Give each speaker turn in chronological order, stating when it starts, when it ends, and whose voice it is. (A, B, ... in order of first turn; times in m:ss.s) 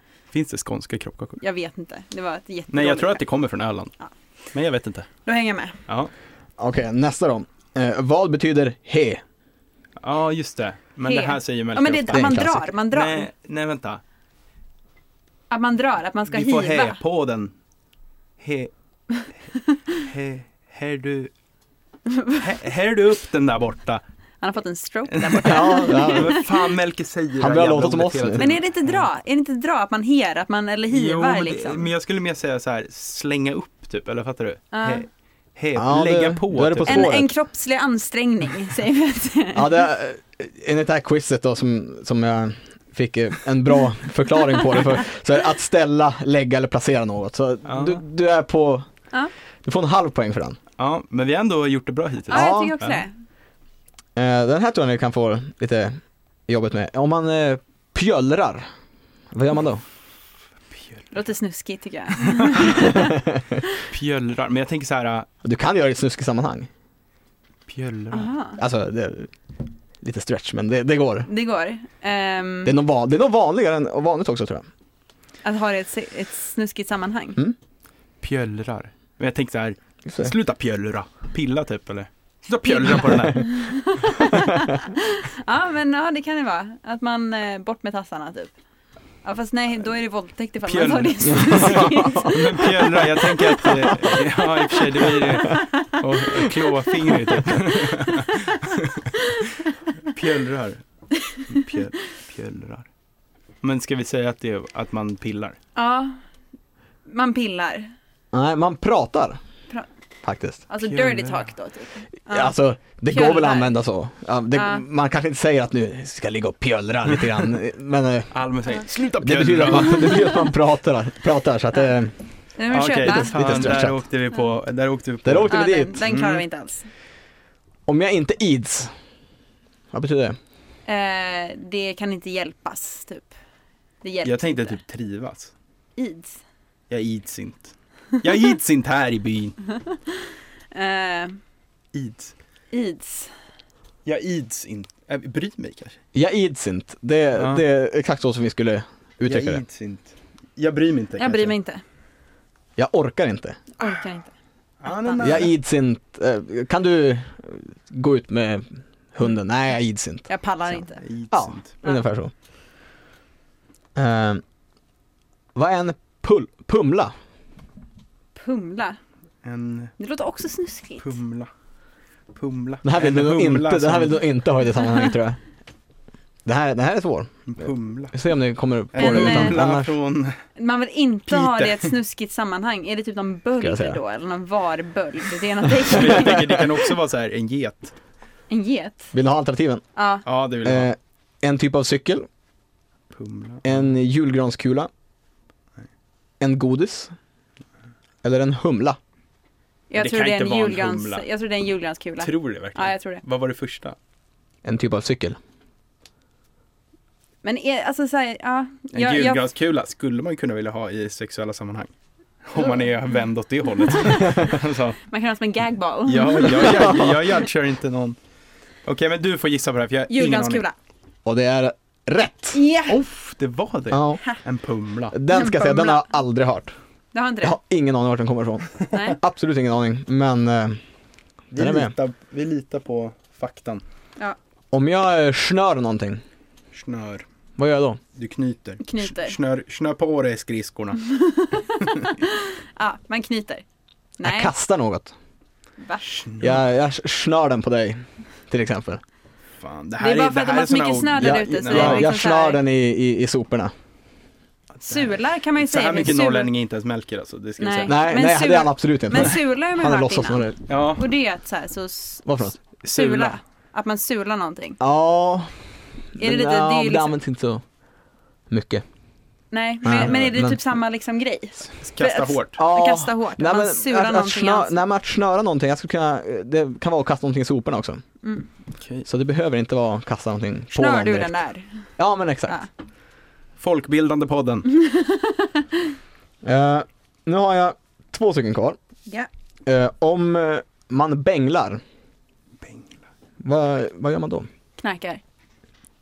0:00.3-0:01.4 A
0:01.4-0:03.2 B
0:02.7-0:03.9 A
0:04.5-0:05.1 A
0:05.3-0:05.8 B
0:06.6-0:09.2 C
0:10.0-0:12.4 A
0:11.0-0:13.3 B
0:12.1-0:12.7 C
0:12.9-0:14.0 A
0:15.5-0:17.0 B
0:16.3-0:17.5 A
0:18.4-0:18.7 A
0:19.9-0:21.3 A
0:22.1-0:22.4 B
0:22.4-0:24.0 A
0:24.4-0:26.7 B
0:25.1-0:29.0 A
0:25.4-0:26.4 C
0:27.4-0:28.5 C
0:28.4-0:31.9 B
0:30.9-0:37.1 A
0:34.7-0:35.1 B
0:35.8-0:37.3 C
0:36.9-0:39.8 B
0:39.6-0:48.9 C
0:47.7-0:48.0 A
0:49.6-0:50.6 C
0:50.8-0:53.0 A
0:52.3-0:53.1 B
0:52.3-0:52.8 C
0:54.2-0:56.0 C
0:56.5-0:58.7 C
0:59.3-0:59.8 C
1:00.7-1:01.1 A
1:01.1-1:03.2 B
1:02.3-1:02.7 A
1:02.8-1:03.6 C
1:03.9-1:05.3 A
1:05.4-1:06.7 C
1:07.7-1:08.3 A
1:08.1-1:08.6 B
1:08.6-1:09.3 C
1:10.0-1:11.3 C
1:11.3-1:12.7 B
1:12.7-1:14.7 C
1:15.4-1:17.4 B
1:18.2-1:23.6 A
1:20.1-1:20.3 C
1:22.6-1:28.5 B
1:24.3-1:24.8 C
1:29.2-1:36.0 B
1:30.7-1:40.8 A
1:31.3-1:32.3 C
1:37.1-1:38.5 B
1:41.5-1:42.9 A
1:43.6-1:45.6 A
1:45.8-1:46.2 B
1:47.1-1:47.9 B
1:48.3-1:49.4 C
1:50.2-1:50.6 C
1:50.7-1:52.5 B
1:50.8-1:51.5 A
1:52.3-1:58.3 C
1:53.1-1:53.8 B
1:54.6-1:54.8 B
1:58.3-2:00.3 A
1:59.2-2:02.2 C
2:02.6-2:03.8 B
2:02.7-2:05.5 A
2:03.0-2:04.0 C
2:05.2-2:06.1 C
2:05.5-2:06.9 B
2:06.0-2:06.4 A
2:07.9-2:08.9 C
2:09.9-2:10.4 C
2:10.9-2:13.3 B
2:14.0-2:14.8 B
2:14.2-2:15.5 A
2:16.0-2:16.4 B
2:16.9-2:19.6 A
2:19.8-2:21.4 B
2:21.9-2:22.3 A
2:22.7-2:23.3 B
2:24.0-2:26.0 A
2:26.1-2:29.6 C
2:27.4-2:27.6 A
2:29.2-2:31.5 A
2:31.2-2:31.8 B
2:32.8-2:33.6 C
2:33.8-2:34.3 B
2:34.8-2:35.5 A
2:34.9-2:35.4 B
2:35.2-2:40.8 C
2:40.3-2:41.0 B
2:41.0-2:41.7 A
2:41.3-2:42.3 C
2:44.0-2:44.4 C
2:45.6-2:47.1 C
2:48.4-2:49.0 B
2:49.4-2:49.9 A
2:50.0-2:51.2 B
2:51.0-2:51.5 A
2:52.4-2:54.2 A
2:52.8-2:55.4 C
2:56.5-2:57.4 C
2:57.5-2:58.1 A
2:58.1-2:59.9 C
2:58.9-3:00.4 A
2:59.0-2:59.6 B
3:00.6-3:06.7 B
3:01.3-3:01.9 A
3:03.6-3:04.0 C
3:05.9-3:07.9 A
3:06.2-3:06.6 C
3:08.5-3:09.1 B
3:09.1-3:09.8 C
3:10.0-3:10.2 B
3:10.2-3:10.9 A
3:10.6-3:12.3 C
3:13.1-3:13.8 A
3:13.6-3:14.9 C
3:16.4-3:17.1 C
3:18.2-3:19.0 C
3:19.9-3:23.2 B
3:20.0-3:21.3 A
3:22.2-3:24.0 A
3:24.6-3:25.4 C
3:27.4-3:29.4 B
3:29.0-3:31.9 A
3:32.4-3:35.0 A
3:33.9-3:34.5 B
3:35.0-3:37.1 B
3:36.1-3:38.2 A
3:36.6-3:37.2 C
3:38.8-3:40.6 A
3:40.1-3:40.8 B
3:41.3-3:42.6 C
3:42.5-3:43.0 B
3:42.9-3:45.2 A
3:43.9-3:44.2 C
3:45.1-3:46.7 C
3:45.3-3:46.0 B
3:47.1-3:47.6 B
3:47.4-3:50.8 C
3:48.9-3:49.2 B
3:51.5-3:53.8 A
3:51.6-3:51.9 C
3:54.7-3:56.2 C
3:56.7-3:57.2 A
3:57.6-3:58.0 C
3:58.2-4:01.0 A
3:58.8-3:59.4 B
4:01.1-4:03.6 B
4:04.2-4:04.5 B
4:04.2-4:05.1 C
4:05.8-4:06.1 B
4:06.0-4:06.6 A
4:06.4-4:09.0 C
4:09.6-4:12.1 A
4:10.0-4:12.6 B
4:11.2-4:13.7 C
4:14.8-4:18.0 A
4:14.9-4:16.5 B
4:17.6-4:24.8 B
4:17.9-4:20.6 C
4:20.7-4:21.0 A
4:22.3-4:22.6 C
4:22.8-4:23.4 A
4:24.8-4:25.6 C
4:26.1-4:27.6 C
4:26.2-4:27.2 B
4:28.5-4:28.8 C
4:29.5-4:34.8 B
4:29.8-4:30.6 C
4:30.0-4:30.3 A
4:31.8-4:32.6 A
4:32.6-4:38.0 C
4:38.8-4:39.1 A
4:39.0-4:41.4 C
4:40.7-4:41.8 B
4:42.0-4:42.6 C
4:43.6-4:44.7 A
4:44.7-4:45.7 B
4:46.4-4:48.8 C
4:49.7-4:51.8 C
4:52.6-4:52.9 A
4:53.4-4:54.5 C
4:54.8-4:55.2 B